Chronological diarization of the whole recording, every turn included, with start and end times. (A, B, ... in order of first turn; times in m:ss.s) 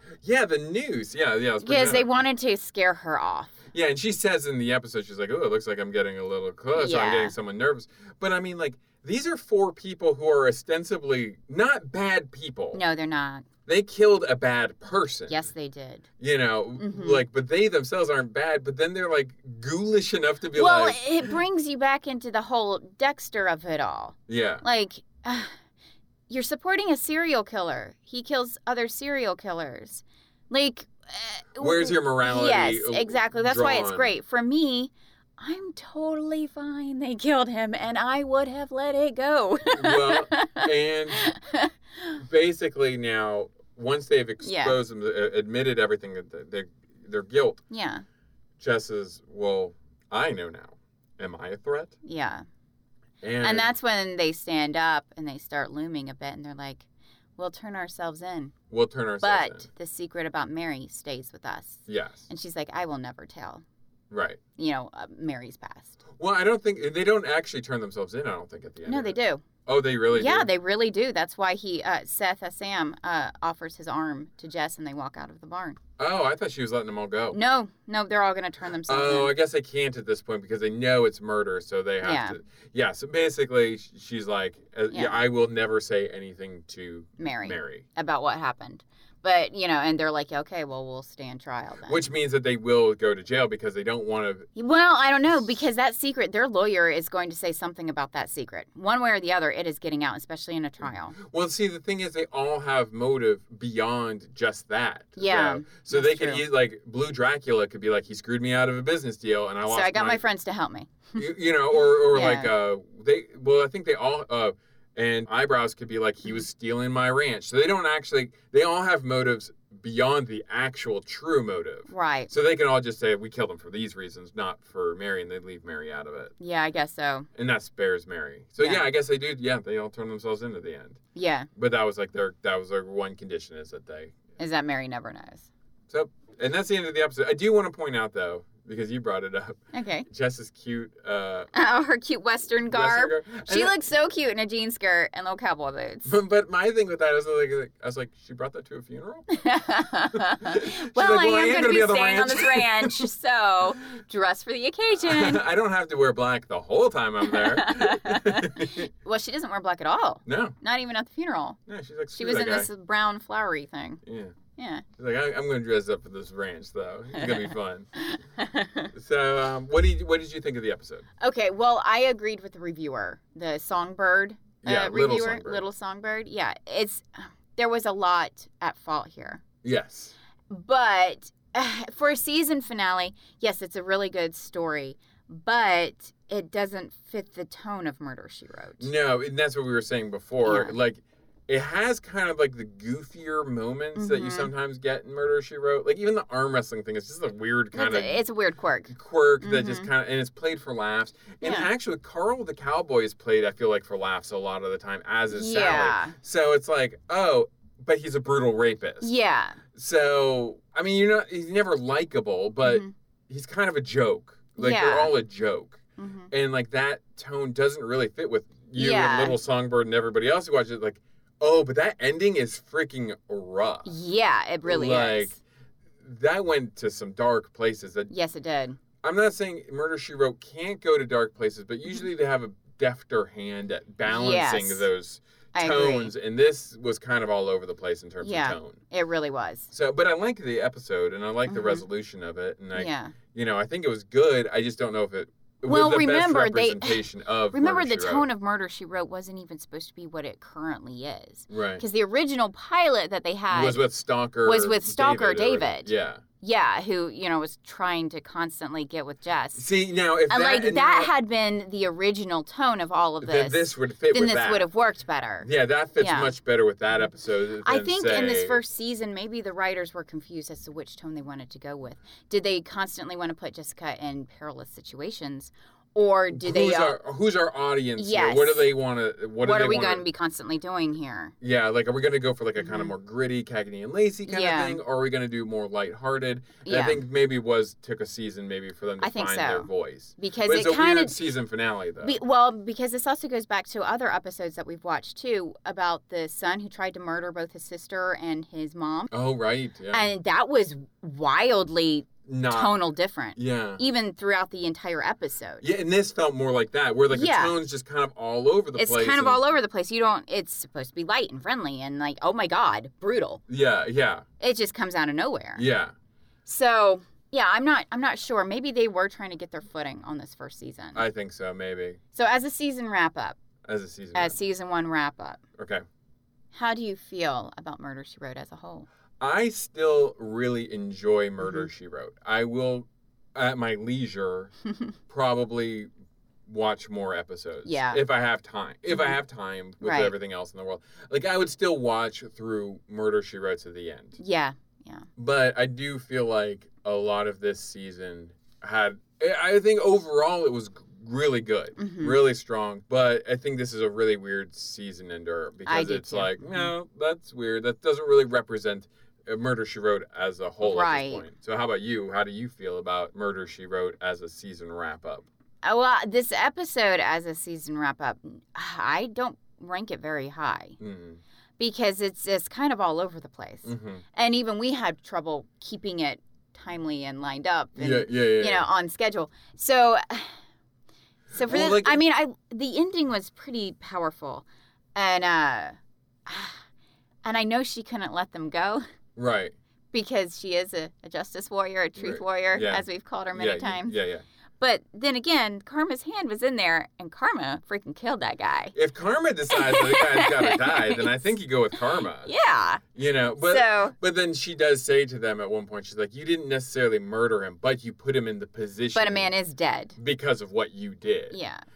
0:00.2-0:02.1 A
0:01.6-0:03.6 B
0:03.7-0:12.8 A
0:06.8-0:07.4 B
0:12.7-0:13.5 B
0:13.7-0:15.3 A
0:15.3-0:16.1 B
0:16.2-0:21.4 A
0:16.8-0:17.2 B
0:20.5-0:25.6 B
0:24.3-0:24.6 A
0:26.3-0:42.2 B
0:31.6-0:34.1 A
0:39.7-0:41.3 A
0:42.2-0:47.6 A
0:44.4-0:44.8 B
0:47.7-0:48.0 B
0:48.6-0:52.0 A
0:52.0-0:52.4 B
0:53.2-0:53.7 A
0:53.4-0:56.9 B
0:57.4-0:58.6 B
0:58.7-0:59.7 A
0:59.2-1:03.6 B
1:01.9-1:02.3 A
1:04.1-1:04.4 A
1:04.6-1:06.0 B
1:06.2-1:10.5 A
1:08.8-1:09.5 B
1:10.1-1:15.8 B
1:16.0-1:17.4 A
1:17.3-1:19.3 B
1:18.9-1:27.9 A
1:22.0-1:22.4 B
1:24.9-1:25.2 B
1:27.2-1:32.0 B
1:31.9-1:34.5 A
1:34.6-1:41.2 B
1:41.2-1:50.2 A
1:45.2-1:46.5 B
1:49.7-1:51.3 B
1:51.2-2:06.3 A
1:51.9-1:52.5 B
2:01.9-2:02.3 B
2:06.4-2:07.3 B
2:07.4-2:11.0 A
2:08.6-2:08.9 B
2:11.2-2:11.5 B
2:11.6-2:14.2 A
2:14.4-2:15.5 B
2:15.9-2:21.5 A
2:19.7-2:20.1 B
2:21.5-2:26.1 B
2:22.7-2:23.8 A
2:26.1-2:29.3 A
2:29.3-2:35.4 B
2:30.1-2:33.1 A
2:35.0-2:38.9 A
2:37.3-2:41.6 B
2:40.3-2:40.6 A
2:41.7-2:42.7 A
2:42.1-2:44.0 B
2:44.0-2:44.4 A
2:44.6-2:44.8 B
2:45.0-2:47.9 A
2:47.2-2:47.4 B
2:48.0-2:48.9 B
2:48.9-2:51.0 A
2:51.2-2:59.4 B
2:54.6-2:55.6 A
2:59.6-3:00.1 A
3:00.5-3:08.9 B
3:08.8-3:18.2 A
3:10.4-3:10.7 B
3:14.0-3:14.5 B
3:17.7-3:19.9 B
3:18.9-3:29.1 A
3:21.4-3:21.7 B
3:25.3-3:26.2 B
3:29.0-3:29.6 B
3:29.7-3:43.9 A
3:32.6-3:32.9 B
3:34.6-3:35.1 B
3:36.0-3:36.3 B
3:38.8-3:39.4 B
3:43.8-3:45.4 B
3:44.6-3:45.4 A
3:46.0-3:48.1 A
3:48.1-3:48.8 B
3:49.0-3:58.8 A
3:54.1-3:54.9 B
3:55.5-3:56.1 B
3:58.2-3:59.7 B
3:59.7-4:08.3 A
4:01.5-4:01.8 B
4:02.7-4:03.1 B
4:05.6-4:13.8 B
4:11.5-4:11.8 A
4:13.5-4:16.2 A
4:14.4-4:15.9 B
4:16.4-4:19.6 B
4:19.6-4:21.1 A
4:20.3-4:25.5 B
4:23.2-4:24.7 A
4:25.4-4:28.6 A
4:26.0-4:26.3 B
4:27.6-4:37.0 B
4:36.3-4:40.0 A
4:38.0-4:38.7 B
4:39.4-4:41.4 B
4:41.4-4:52.2 A
4:42.6-4:42.9 B
4:44.3-4:44.8 B
4:46.6-4:47.0 B
4:49.0-4:51.2 B
4:52.0-4:59.1 B
4:59.1-5:00.1 A
4:59.9-5:05.6 B
5:02.3-5:02.7 A
5:03.4-5:03.8 A
5:05.6-5:09.4 A
5:07.1-5:07.5 B
5:08.8-5:13.4 B
5:13.5-5:14.2 A
5:14.4-5:15.6 B
5:15.6-5:15.9 A
5:16.5-5:21.0 B
5:21.0-5:22.0 A
5:22.1-5:23.4 B
5:23.6-5:24.4 A
5:24.1-5:25.4 B
5:25.6-5:25.8 A
5:26.5-5:28.9 B
5:29.2-5:34.5 A
5:35.1-5:35.9 A
5:36.5-5:44.2 A
5:37.6-5:38.0 B
5:39.8-5:40.1 B
5:44.2-5:45.1 B
5:45.2-6:05.3 A
5:51.8-5:52.2 B
5:55.7-5:56.7 B
6:00.6-6:01.2 B
6:05.6-6:10.8 B
6:10.8-6:11.2 A
6:11.6-6:20.3 B
6:13.6-6:14.0 A
6:17.8-6:18.7 A
6:21.3-6:26.6 B
6:21.4-6:22.0 A
6:27.2-6:28.8 B
6:29.2-6:29.6 A
6:29.9-6:34.0 B
6:32.0-6:34.2 A
6:34.6-6:38.8 B
6:38.8-6:42.3 A
6:39.5-6:41.3 B
6:42.2-6:42.8 B
6:43.0-6:49.3 A
6:43.4-6:43.9 B
6:49.0-6:50.0 B
6:50.0-6:51.4 A
6:51.3-6:51.6 B